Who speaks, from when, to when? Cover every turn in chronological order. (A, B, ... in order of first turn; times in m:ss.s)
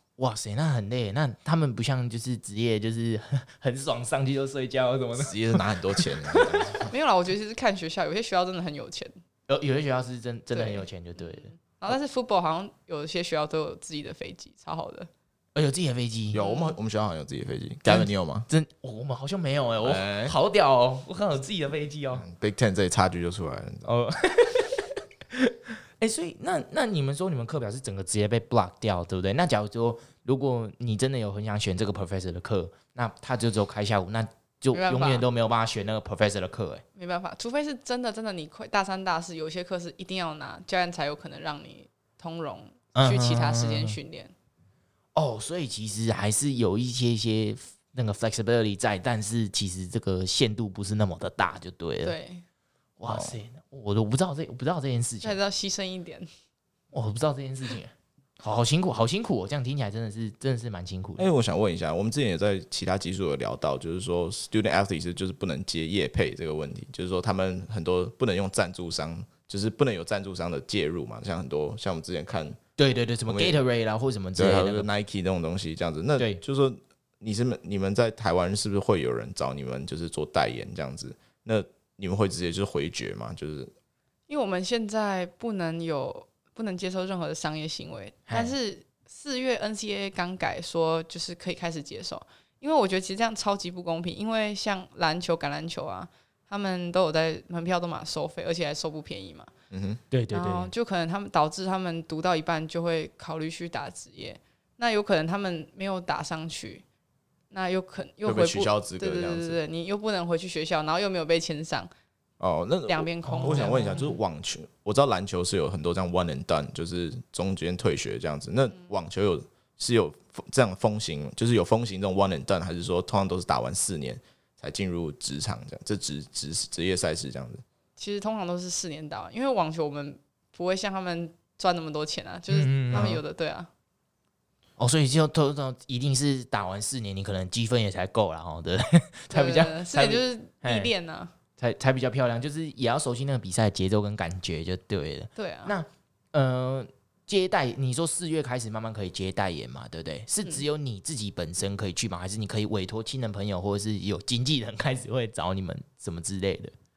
0:00.2-0:06.9 A
0:05.2-0:06.9 B
0:06.9-0:09.1 C
0:09.5-0:11.5 A
0:10.5-0:15.1 C
0:15.5-0:16.4 A
0:16.3-0:18.5 B
0:16.4-0:16.8 C
0:17.8-0:22.2 A
0:19.8-0:20.3 B
0:22.2-0:23.9 B
0:23.8-0:36.8 A
0:34.7-0:35.2 C
0:37.0-0:44.3 C
0:42.9-0:44.0 A
0:45.1-0:52.1 A
0:52.0-0:52.4 C
0:53.0-0:55.4 A
0:53.1-0:53.3 B
0:55.2-0:56.3 C
0:56.9-1:01.3 A
1:01.2-1:12.6 B
1:12.8-1:14.9 A
1:13.3-1:13.6 B
1:14.4-1:23.7 B
1:24.3-1:39.5 C
1:28.3-1:28.5 A
1:39.7-1:40.0 B
1:40.1-1:40.7 A
1:40.3-1:46.8 C
1:47.5-1:51.9 C
1:48.2-1:49.6 B
1:52.4-2:07.6 B
1:52.9-1:54.1 C
1:53.2-1:54.0 A
2:08.0-2:13.7 C
2:12.5-2:13.2 A
2:14.8-2:20.9 A
2:19.3-2:21.3 C
2:21.6-2:36.7 A
2:25.4-2:25.7 C